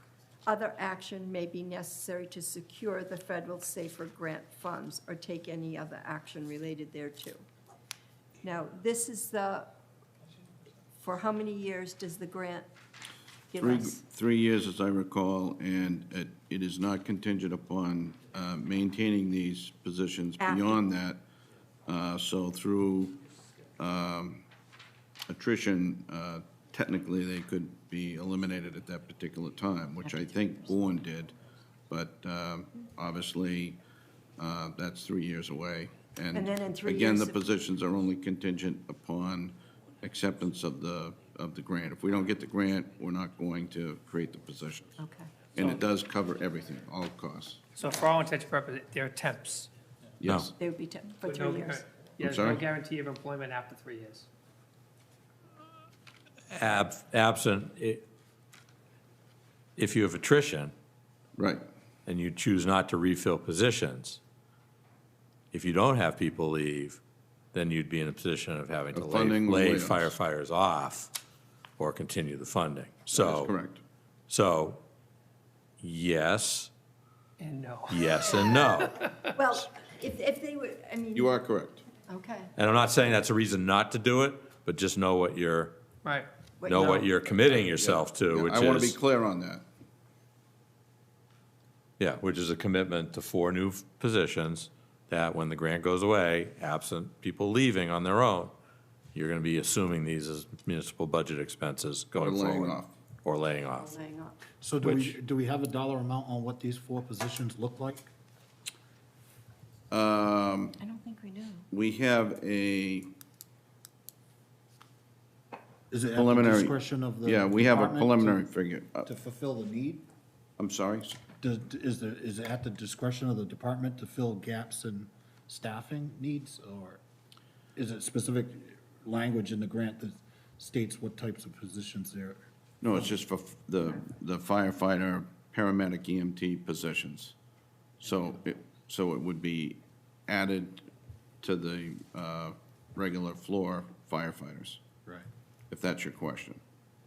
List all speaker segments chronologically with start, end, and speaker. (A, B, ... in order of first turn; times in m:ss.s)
0:00.4-0:07.4 A
0:08.4-0:09.7 A
0:11.0-0:12.7 A
0:13.5-0:14.0 A
0:13.6-0:21.2 B
0:20.4-0:20.9 A
0:21.8-0:23.2 B
0:23.8-0:24.5 B
0:25.3-0:31.3 B
0:31.9-0:33.8 B
0:34.4-0:44.9 B
0:36.3-0:37.4 A
0:45.0-0:45.3 A
0:45.5-0:47.6 B
0:45.6-0:45.8 C
0:47.7-0:49.7 C
0:50.2-0:50.5 B
0:50.2-0:50.5 D
0:50.6-0:51.8 A
0:51.2-0:54.3 C
0:52.2-0:52.6 B
0:56.5-0:58.0 D
0:59.8-1:00.7 D
1:01.4-1:01.6 B
1:02.0-1:04.2 D
1:05.5-1:07.0 D
1:07.5-1:11.1 D
1:08.9-1:10.1 B
1:11.8-1:13.5 D
1:13.1-1:13.8 B
1:14.3-1:14.8 D
1:15.8-1:16.7 D
1:17.4-1:19.2 C
1:17.9-1:19.0 D
1:19.3-1:21.3 A
1:21.1-1:21.8 B
1:22.1-1:22.5 A
1:22.6-1:25.8 D
1:26.0-1:27.1 C
1:26.6-1:27.0 A
1:26.6-1:29.0 D
1:27.6-1:29.6 B
1:32.0-1:38.5 D
1:39.1-1:43.9 D
1:42.2-1:42.9 B
1:43.8-1:44.4 A
1:44.6-1:48.1 E
1:44.8-1:45.2 D
1:49.9-1:50.8 B
1:50.8-1:51.7 A
1:51.7-1:53.1 B
1:55.9-1:58.5 E
1:56.1-1:59.1 B
1:59.0-2:00.0 E
2:00.6-2:01.2 B
2:01.4-2:07.0 E
2:07.8-2:13.1 E
2:12.8-2:17.3 B
2:18.0-2:20.8 B
2:21.4-2:24.8 B
2:25.7-2:26.6 B